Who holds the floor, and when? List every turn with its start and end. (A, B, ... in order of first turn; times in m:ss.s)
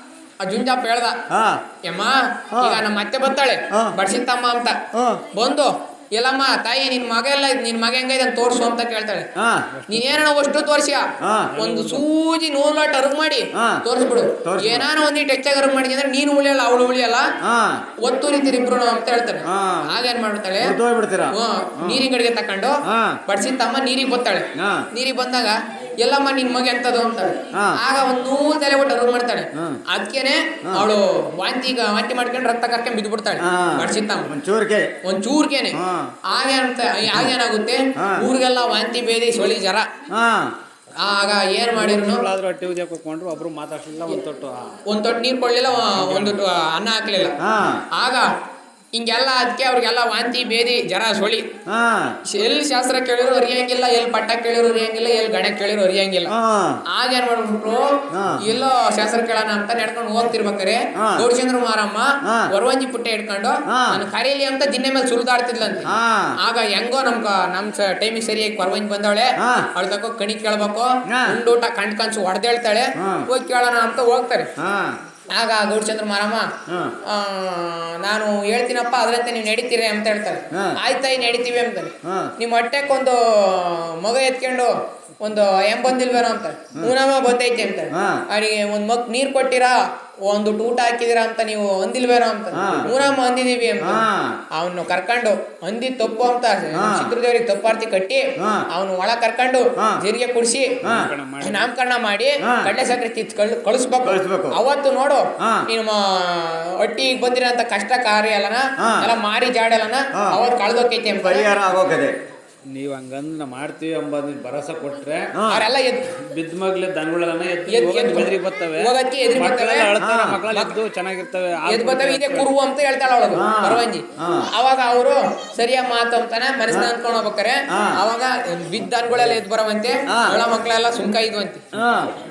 0:00.4-0:01.2 A
0:01.3-0:01.6 B
0:01.8-0:09.3 A
0:02.5-0:02.8 B
0:04.9-0:05.2 B
0:09.4-0:09.7 B
0:09.7-0:10.2 C
0:09.9-0:17.3 A
0:11.2-0:11.6 B
0:11.5-0:12.1 C
0:13.6-0:13.8 B
0:14.4-0:14.9 B
0:17.4-0:17.9 B
0:18.0-0:20.8 A
0:19.4-0:20.0 B
0:20.6-0:22.1 B
0:21.3-0:34.3 A
0:22.8-0:23.2 B
0:24.6-0:24.9 B
0:27.5-0:27.8 B
0:29.5-0:29.8 B
0:33.4-0:34.9 B
0:35.0-0:39.9 A
0:35.7-0:36.2 B
0:37.0-0:37.3 B
0:38.0-0:38.3 B
0:40.1-0:40.5 B
0:41.0-0:42.2 A
0:41.8-0:44.8 C
0:44.8-0:47.4 A
0:45.8-0:46.4 C
0:47.4-0:47.8 B
0:47.9-0:48.3 A
0:49.0-0:51.5 A
0:51.7-0:52.2 B
0:52.2-0:56.3 A
0:56.3-0:56.8 B
0:56.9-1:14.5 A
0:58.1-0:58.5 B
1:01.0-1:01.3 B
1:02.2-1:02.5 B
1:03.7-1:04.0 B
1:05.8-1:06.4 B
1:09.4-1:09.7 B
1:11.1-1:11.4 B
1:13.0-1:13.3 B
1:14.6-1:15.0 B
1:15.3-1:16.5 A
1:16.7-1:17.0 B
1:17.0-1:40.8 A
1:22.0-1:22.3 B
1:27.9-1:28.2 B
1:32.5-1:33.0 B
1:33.8-1:34.4 B
1:36.7-1:37.1 B
1:38.4-1:38.7 B
1:40.8-1:41.7 C
1:40.8-1:41.1 B
1:41.4-1:51.5 A
1:42.4-1:42.7 B
1:44.0-1:44.6 B
1:45.4-1:45.7 B
1:48.8-1:49.1 B
1:50.1-1:50.4 B
1:51.2-1:52.2 B
1:52.7-1:55.4 C
1:55.3-1:55.7 B
1:55.5-1:56.1 A
1:56.1-2:02.5 C
1:57.7-1:59.9 A
2:00.0-2:00.4 B
2:01.7-2:11.6 A
2:03.3-2:04.5 B
2:07.7-2:08.0 B
2:10.1-2:10.4 B
2:11.7-2:12.1 B